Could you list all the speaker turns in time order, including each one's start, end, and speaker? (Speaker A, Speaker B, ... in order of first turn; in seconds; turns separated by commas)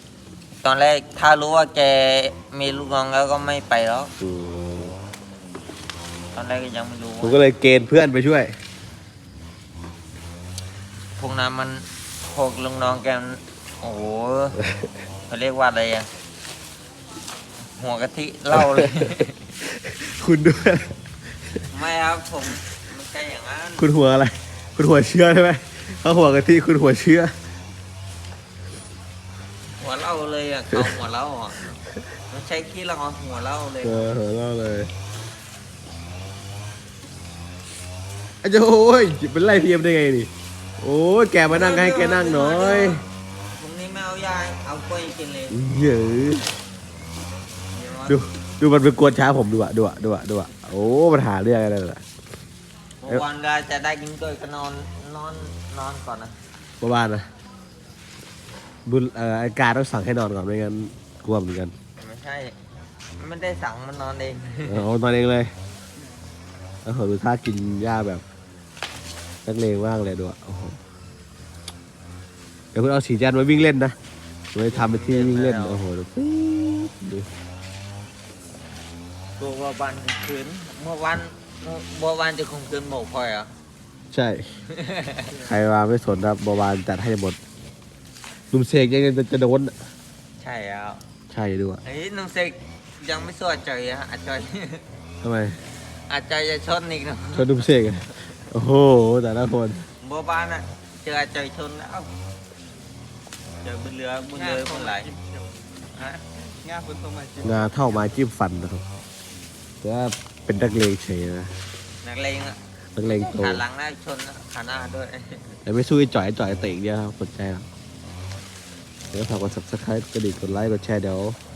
Speaker A: 0.6-4.1, Speaker B: 4.2-4.9, Speaker A: 6.3-7.4, Speaker B: 7.2-8.6, Speaker A: 11.2-14.6, Speaker B: 14.6-14.9, Speaker A: 15.3-16.1, Speaker A: 17.8-19.4, Speaker B: 18.5-19.1, Speaker B: 19.6-20.9, Speaker A: 21.7-23.9, Speaker B: 23.8-27.3, Speaker A: 29.8-31.8, Speaker A: 32.3-34.2, Speaker B: 33.8-34.9, Speaker B: 38.4-43.0, Speaker A: 41.5-43.0, Speaker A: 43.6-45.6, Speaker B: 45.5-46.5, Speaker A: 47.7-48.2, Speaker B: 48.1-52.0, Speaker A: 53.0-56.3, Speaker B: 56.8-57.3, Speaker B: 58.9-61.7, Speaker A: 62.0-62.6, Speaker A: 63.2-64.8, Speaker B: 64.7-65.5, Speaker B: 66.8-68.2, Speaker B: 69.5-70.8, Speaker B: 72.7-74.0, Speaker B: 74.5-77.3, Speaker A: 74.7-75.8, Speaker A: 79.4-83.5, Speaker B: 84.1-84.5, Speaker A: 84.7-85.4, Speaker B: 85.3-87.4, Speaker B: 88.5-89.7, Speaker A: 90.4-91.0, Speaker B: 91.3-91.8, Speaker A: 91.8-94.8, Speaker B: 95.2-95.6, Speaker A: 96.1-97.7, Speaker B: 97.3-99.9, Speaker A: 100.0-102.1, Speaker A: 103.6-105.1, Speaker C: 104.6-105.8, Speaker A: 105.9-106.2, Speaker C: 106.4-108.2, Speaker B: 107.4-108.8, Speaker B: 109.8-111.5, Speaker A: 112.0-115.5, Speaker B: 113.0-113.6, Speaker B: 115.7-117.7, Speaker B: 119.1-121.4